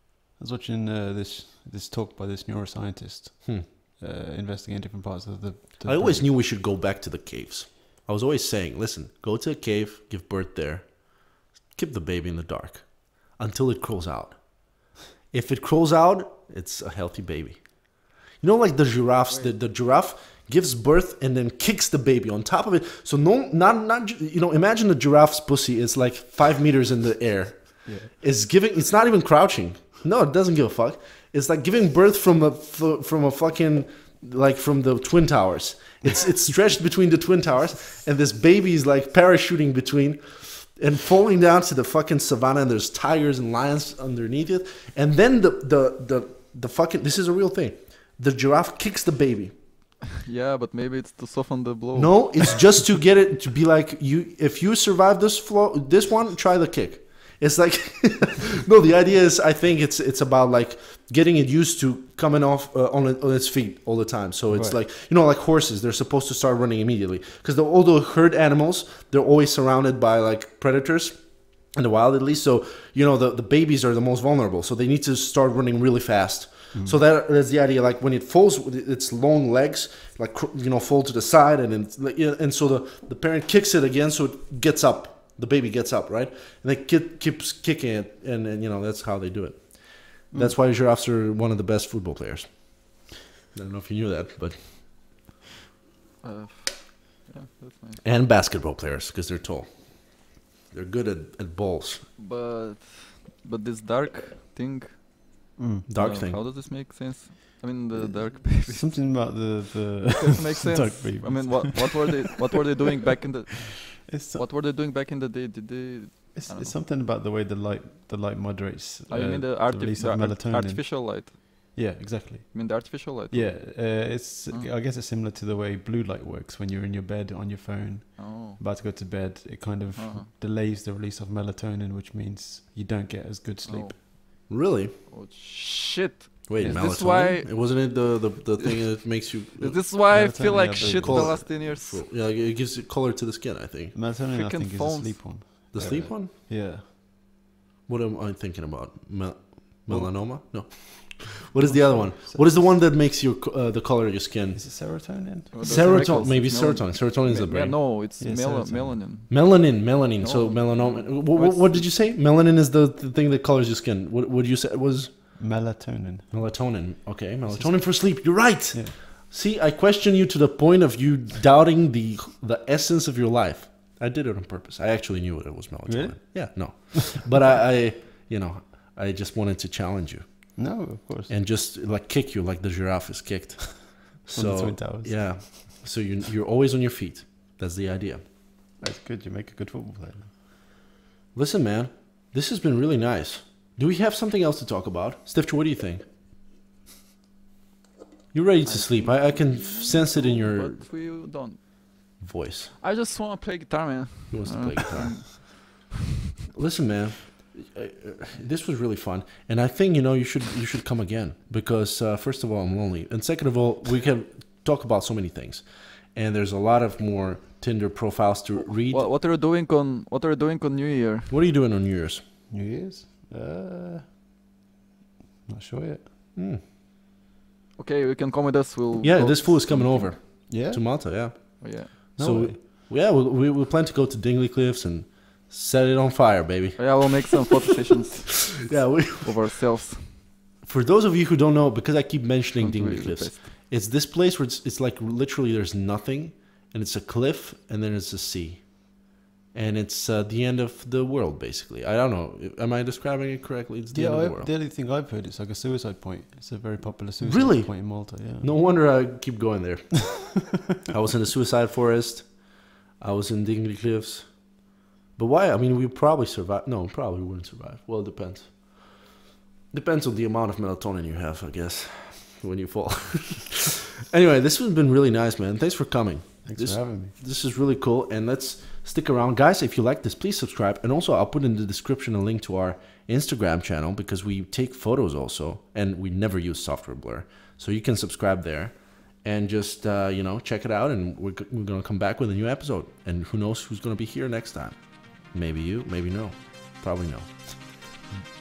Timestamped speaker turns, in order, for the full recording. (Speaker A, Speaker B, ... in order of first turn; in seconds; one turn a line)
Speaker A: 0.4-6.3
Speaker B: 5.8-49.5
Speaker C: 19.3-19.6
Speaker A: 27.9-28.1
Speaker C: 50.2-52.7
Speaker B: 52.0-94.7
Speaker A: 64.5-64.8
Speaker A: 76.7-77.0
Speaker A: 90.3-90.6
Speaker C: 96.2-98.0
Speaker B: 98.0-102.1
Speaker C: 102.2-105.4
Speaker A: 105.6-105.9
Speaker B: 105.9-106.4
Speaker C: 106.0-109.5
Speaker A: 107.9-112.1
Speaker C: 110.2-116.8
Speaker A: 114.0-114.5
Speaker A: 116.3-134.0
Speaker C: 119.1-121.4
Speaker C: 122.5-124.7
Speaker C: 128.2-128.6
Speaker C: 129.9-130.3
Speaker C: 133.7-134.0
Speaker B: 134.5-134.9
Speaker C: 135.1-138.7
Speaker B: 136.5-140.0
Speaker A: 136.6-136.8
Speaker C: 139.6-142.1
Speaker A: 140.1-141.4
Speaker B: 140.8-143.9
Speaker A: 143.9-146.8
Speaker C: 144.3-145.5
Speaker B: 145.7-146.3
Speaker B: 147.9-154.6
Speaker A: 149.9-150.7
Speaker A: 151.6-152.7
Speaker A: 154.5-156.2
Speaker C: 155.5-161.9
Speaker B: 155.6-157.9
Speaker A: 158.2-159.0
Speaker B: 159.3-165.4
Speaker A: 165.4-166.6
Speaker B: 166.3-180.7
Speaker A: 167.5-168.9
Speaker A: 175.9-177.0
Speaker A: 180.6-181.3
Speaker B: 181.3-188.2
Speaker A: 184.3-185.7
Speaker A: 188.8-190.3
Speaker B: 191.3-196.0
Speaker B: 198.3-200.8
Speaker C: 198.7-201.7
Speaker B: 202.2-202.7
Speaker C: 202.8-205.8
Speaker B: 204.3-205.6
Speaker B: 206.6-219.1
Speaker C: 218.9-221.3
Speaker B: 221.3-222.2
Speaker A: 222.5-224.1
Speaker A: 225.5-226.1
Speaker B: 226.4-226.6
Speaker C: 227.8-230.2
Speaker B: 229.0-237.6
Speaker A: 230.5-231.5
Speaker C: 231.6-231.9
Speaker A: 232.2-232.6
Speaker C: 236.8-240.2
Speaker B: 238.5-239.4
Speaker B: 240.6-254.5
Speaker C: 242.6-243.5
Speaker A: 253.9-258.5
Speaker B: 257.2-269.0
Speaker B: 269.7-297.8
Speaker A: 276.4-277.1